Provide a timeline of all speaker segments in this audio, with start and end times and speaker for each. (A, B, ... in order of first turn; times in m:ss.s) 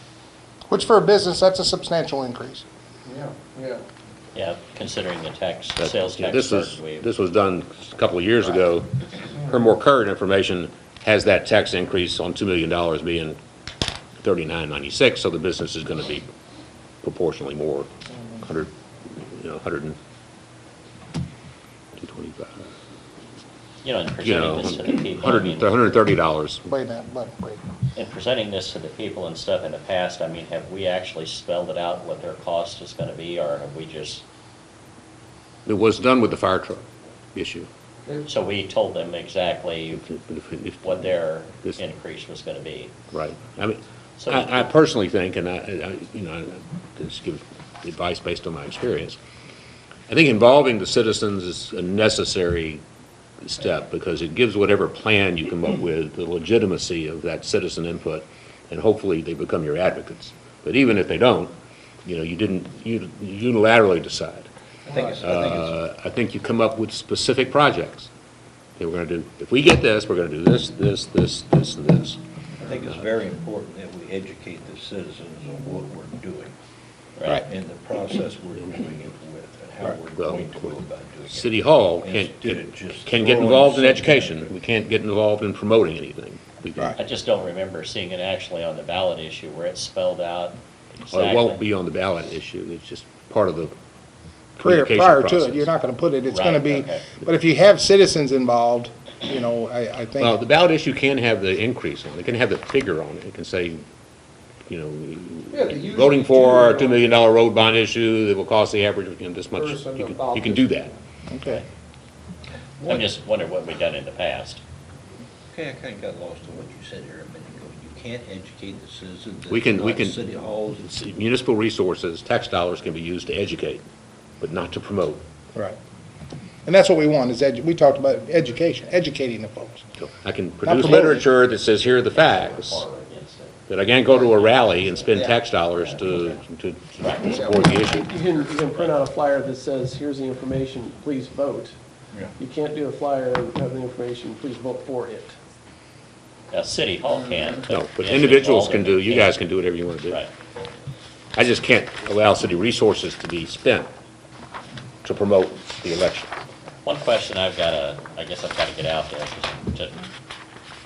0:00.7-0:02.6 A
0:03.1-0:03.8 B
0:04.4-0:07.1 C
0:05.8-0:13.4 D
0:14.2-0:16.3 D
0:17.0-0:17.9 D
0:18.1-0:18.4 A
0:18.4-0:20.0 D
0:22.0-0:22.7 D
0:23.8-0:25.8 C
0:24.2-0:26.7 D
0:26.7-0:27.6 A
0:28.0-0:34.2 C
0:35.7-0:37.7 D
0:38.2-0:40.0 C
0:40.0-0:41.8 D
0:40.8-0:42.9 C
0:43.1-0:49.2 D
0:44.2-0:44.7 C
0:50.1-0:52.8 D
0:53.4-1:01.5 D
1:02.1-1:04.5 D
1:04.9-1:05.8 E
1:05.2-1:08.1 D
1:08.8-1:12.2 D
1:12.6-1:16.5 E
1:17.2-1:17.4 C
1:17.4-1:24.5 E
1:20.1-1:27.0 D
1:27.0-1:31.6 C
1:31.1-1:33.7 D
1:34.6-1:35.7 D
1:34.6-1:40.4 A
1:36.3-1:37.1 C
1:40.2-1:43.8 D
1:44.7-1:50.9 D
1:45.5-1:47.0 B
1:49.6-1:50.6 B
1:51.3-1:51.6 A
1:52.8-1:54.6 C
1:55.5-2:00.8 E
1:59.5-2:00.2 D
2:00.8-2:03.8 D
2:04.4-2:05.2 D
2:06.6-2:09.8 A
2:10.0-2:12.8 D
2:10.6-2:11.2 A
2:12.1-2:15.1 C
2:13.7-2:18.1 D
2:15.1-2:15.5 E
2:16.0-2:16.4 E
2:17.0-2:17.4 C
2:17.2-2:18.0 A
2:18.0-2:21.7 F
2:22.4-2:25.4 F
2:26.5-2:29.4 C
2:27.7-2:30.2 D
2:31.4-2:33.9 D
2:35.0-2:36.3 D
2:36.8-2:40.1 C